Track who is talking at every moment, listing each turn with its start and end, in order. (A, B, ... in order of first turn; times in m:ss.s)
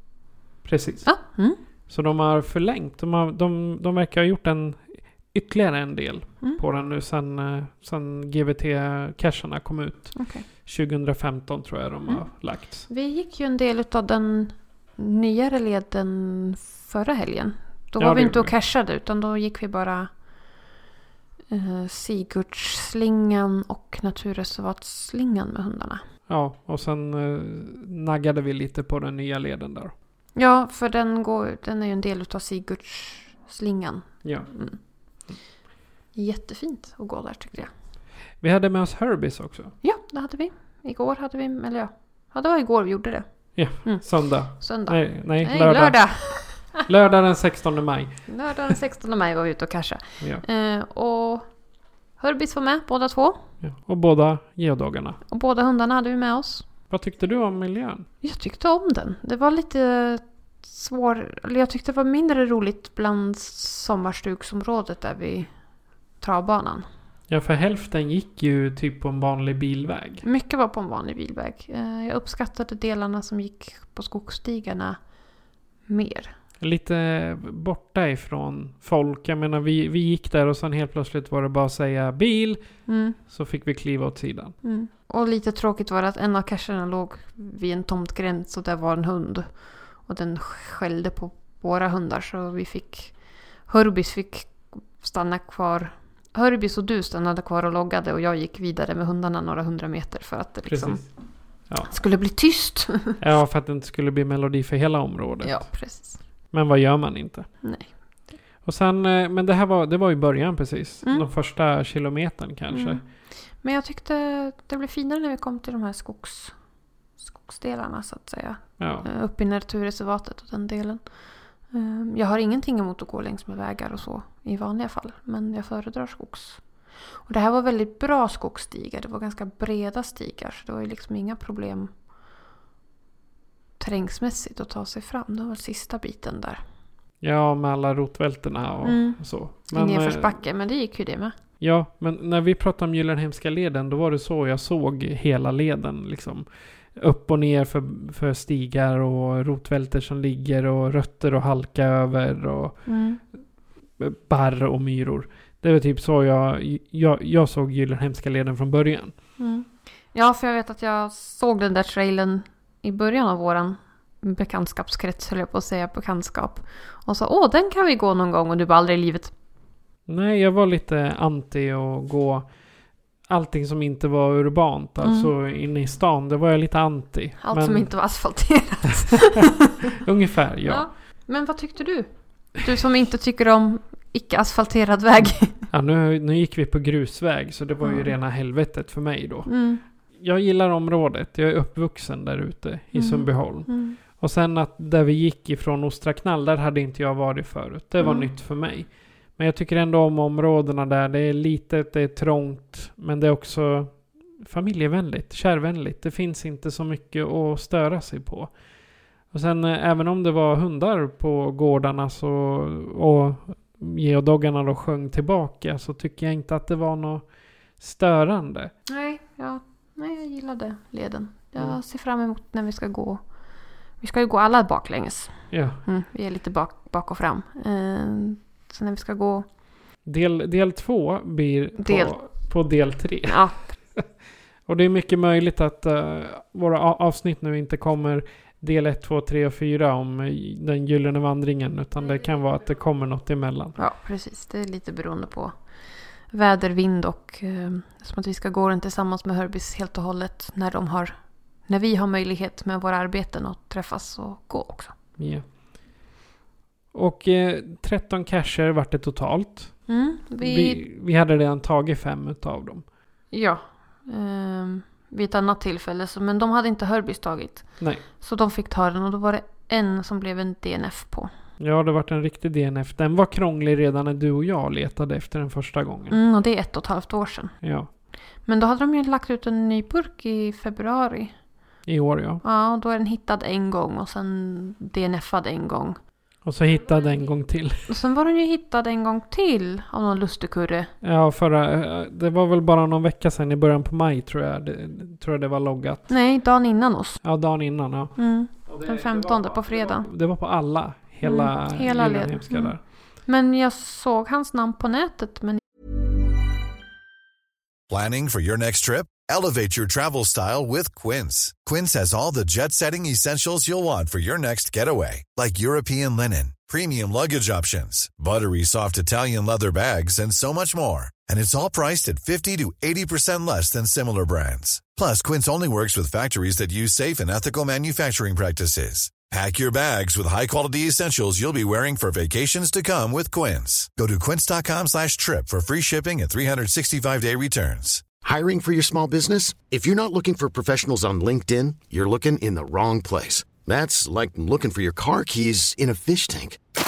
0:00.6-0:01.1 A
0:01.0-0:01.6 B
0:01.9-0:12.9 A
0:10.2-0:10.4 B
0:12.9-0:20.1 B
0:18.0-0:18.5 A
0:21.5-0:26.0 B
0:26.3-0:29.9 A
0:30.4-0:34.8 B
0:34.2-0:34.5 A
0:36.1-0:37.7 B
0:38.4-0:39.7 A
0:39.8-0:43.2 B
0:43.6-0:46.0 A
0:43.8-0:44.0 B
0:44.6-0:46.8 B
0:46.8-0:48.2 A
0:48.3-0:51.5 B
0:52.2-0:53.4 B
0:53.6-0:55.2 A
0:55.3-0:56.6 B
0:56.9-0:58.1 A
0:58.2-1:05.5 B
1:06.2-1:06.8 B
1:07.3-1:10.2 A
1:10.2-1:15.0 B
1:15.9-1:16.3 B
1:16.6-1:22.6 A
1:22.9-1:23.2 B
1:23.3-1:24.6 A
1:24.6-1:33.1 B
1:33.6-1:41.0 B
1:40.7-1:41.1 A
1:41.9-1:43.2 B
1:43.2-1:45.7 A
1:45.4-1:46.2 B
1:46.5-1:47.5 A
1:47.6-1:47.9 B
1:48.6-1:53.0 A
1:52.7-1:53.0 B
1:53.6-1:56.5 B
1:57.2-2:01.0 B
1:58.8-1:59.1 A
2:01.7-2:06.6 B
2:07.2-2:11.9 B
2:13.8-2:16.6 B
2:17.2-2:20.4 A
2:18.8-2:19.2 B
2:19.7-2:21.4 B
2:21.6-2:32.8 A
2:32.8-2:33.2 B
2:34.0-2:39.1 A
2:39.4-2:49.3 B
2:50.1-2:52.5 A
2:53.3-2:57.9 A
2:55.0-2:55.3 B
2:57.4-2:59.8 B
2:59.9-3:00.8 A
3:00.6-3:05.6 B
3:05.7-3:09.5 A
3:07.8-3:08.1 B
3:09.5-3:09.8 B
3:10.2-3:28.5 A
3:12.9-3:14.0 B
3:18.0-3:18.3 B
3:29.3-3:37.2 A
3:37.8-3:38.7 A
3:38.9-3:43.2 B
3:44.0-3:49.4 B
3:45.5-3:45.8 A
3:50.0-3:53.4 A
3:51.8-3:52.1 B
3:53.3-3:53.7 B
3:54.7-4:03.8 A
4:03.8-4:05.5 B
4:06.3-4:11.1 B
4:11.6-4:14.9 B
4:15.2-4:15.4 A
4:16.9-4:19.9 A
4:19.9-4:20.8 B
4:20.4-4:22.8 A
4:23.3-4:31.3 B
4:31.6-4:36.2 A
4:36.1-4:37.5 B
4:37.6-4:37.9 A
4:38.4-4:41.3 B
4:41.9-4:42.4 A
4:42.4-4:46.0 B
4:46.4-4:47.9 A
4:47.9-4:50.9 B
4:51.0-4:56.1 A
4:56.1-4:57.2 B
4:57.2-5:02.8 A
4:58.2-5:00.1 B
5:01.2-5:05.6 B
5:07.9-5:38.0 C
5:38.2-5:46.6 D